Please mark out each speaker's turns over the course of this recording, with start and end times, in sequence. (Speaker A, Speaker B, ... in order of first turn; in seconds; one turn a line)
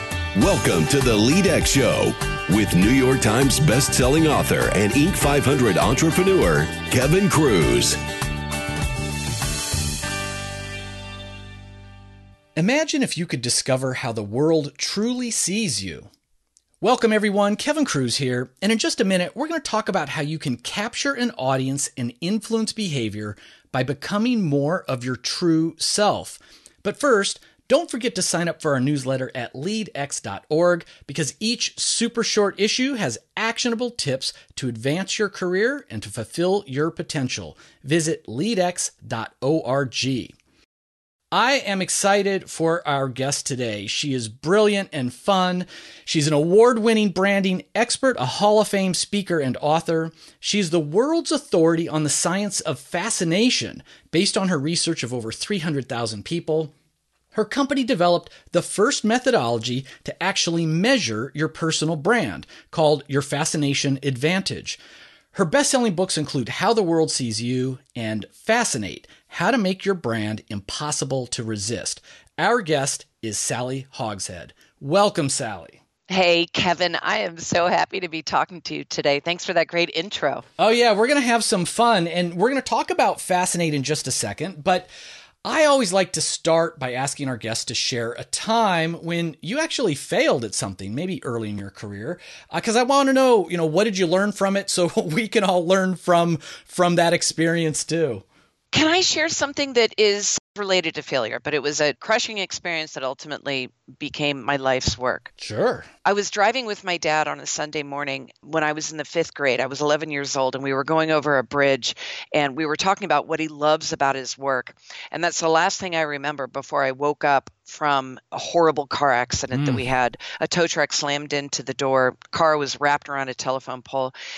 Speaker A: 0.4-8.0
Speaker B: 12.6-16.1
Speaker B: 16.8-40.4
Speaker B: 41.3-56.7
Speaker B: 57.3-64.8
Speaker B: 65.3-75.8
Speaker C: 76.1-80.4
Speaker B: 80.6-84.9
Speaker B: 85.4-98.2
Speaker C: 98.7-105.3
Speaker B: 105.4-105.9
Speaker C: 106.0-124.1
Speaker B: 119.5-119.9